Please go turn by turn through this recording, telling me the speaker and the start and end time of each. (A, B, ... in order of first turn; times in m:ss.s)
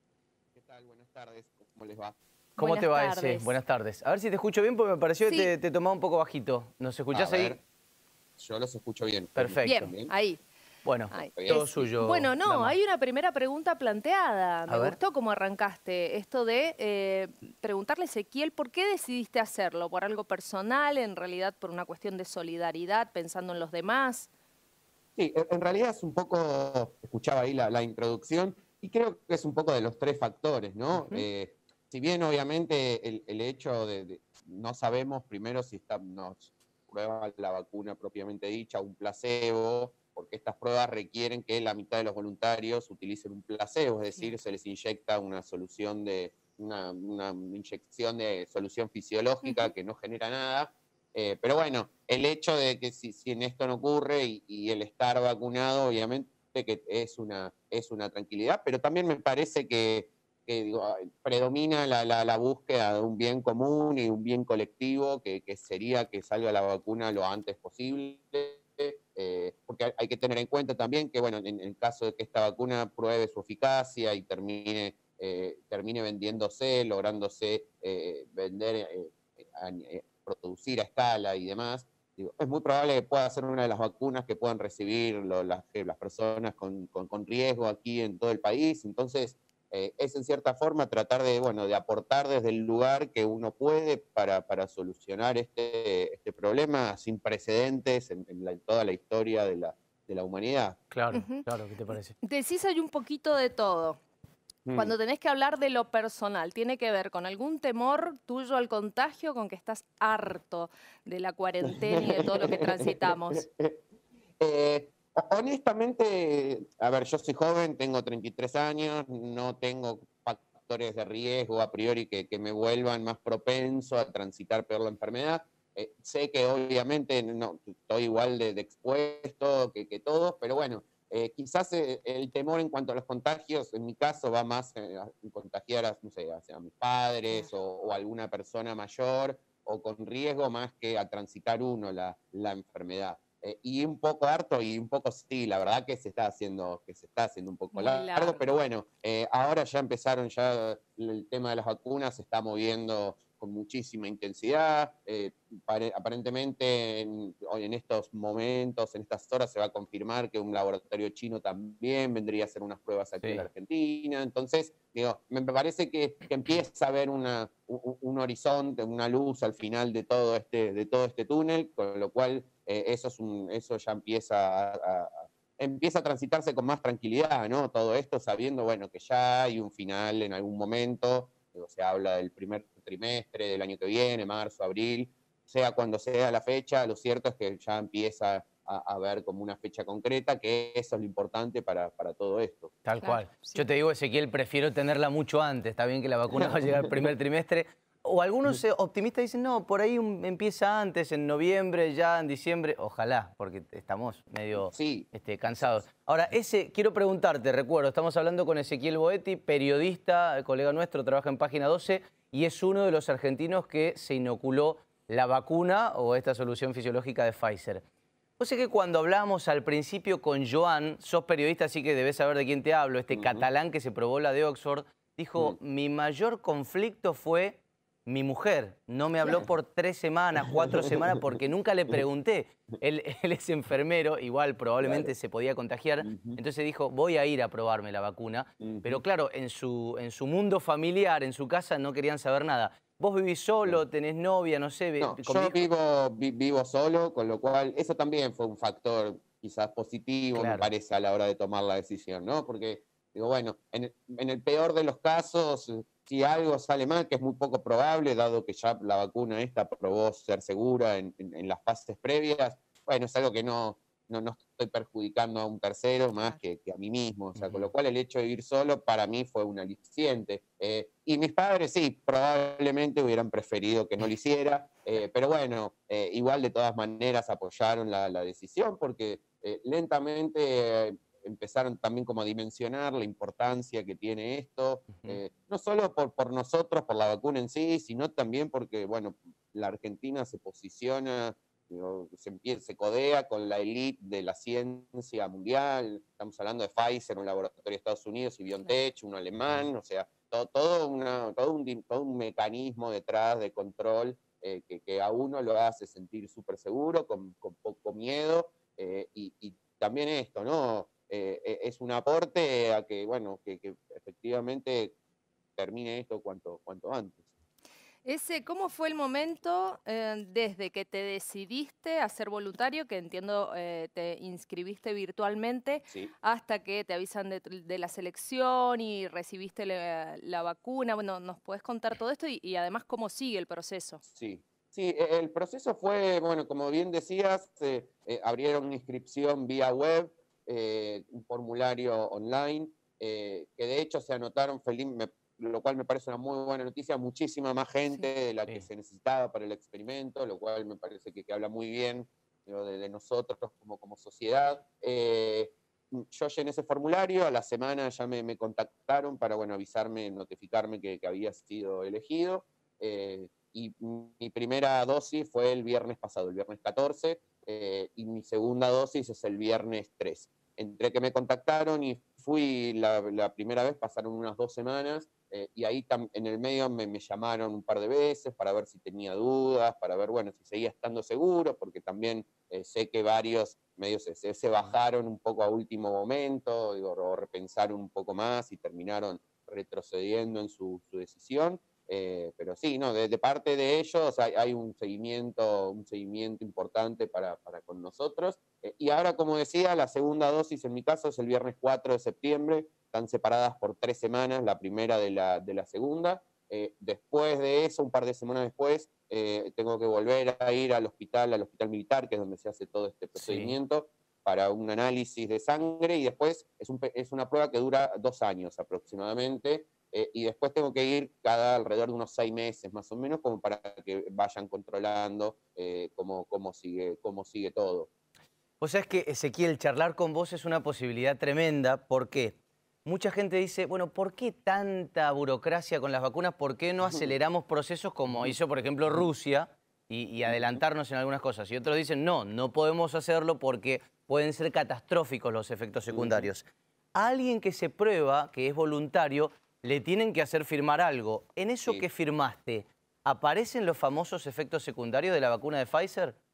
0:00.5-0:02.2 A
0:02.6-0:03.5 B
0:02.6-0:07.6 C
0:05.2-0:05.5 B
0:07.1-0:07.6 A
0:08.4-0:10.1 A
0:09.3-0:09.9 C
0:09.6-0:10.4 B
0:10.8-0:12.8 C
0:11.1-0:24.3 B
0:11.4-0:11.7 A
0:14.7-0:15.0 C
0:25.2-1:40.8 A
0:30.9-0:31.3 B
0:49.4-0:49.7 B
1:40.9-1:42.1 C
1:41.1-1:41.4 B
1:42.2-1:44.0 B
1:44.6-1:44.9 A
1:44.7-1:53.4 B
1:52.1-1:53.8 A
1:54.4-3:12.7 A
2:27.7-2:28.4 B
2:43.2-2:43.5 C
3:12.8-3:37.8 C
3:13.0-3:13.6 B
3:16.3-3:17.1 A
3:24.5-3:25.8 A
3:38.4-4:05.6 C
3:43.1-3:43.4 A
3:50.4-3:51.2 A
3:54.8-3:55.1 A
3:56.0-3:56.4 A
3:58.6-3:59.0 A
4:05.0-5:15.0 A
4:10.3-4:10.7 C
4:27.4-4:27.7 C
4:44.9-4:45.2 C
5:15.6-5:17.2 A
5:18.0-5:34.0 B
5:34.1-7:07.9 A
6:53.1-6:53.6 C
7:08.6-7:36.2 C
7:16.8-7:17.1 A
7:18.1-7:18.4 A
7:20.2-7:20.6 A
7:25.9-7:26.3 A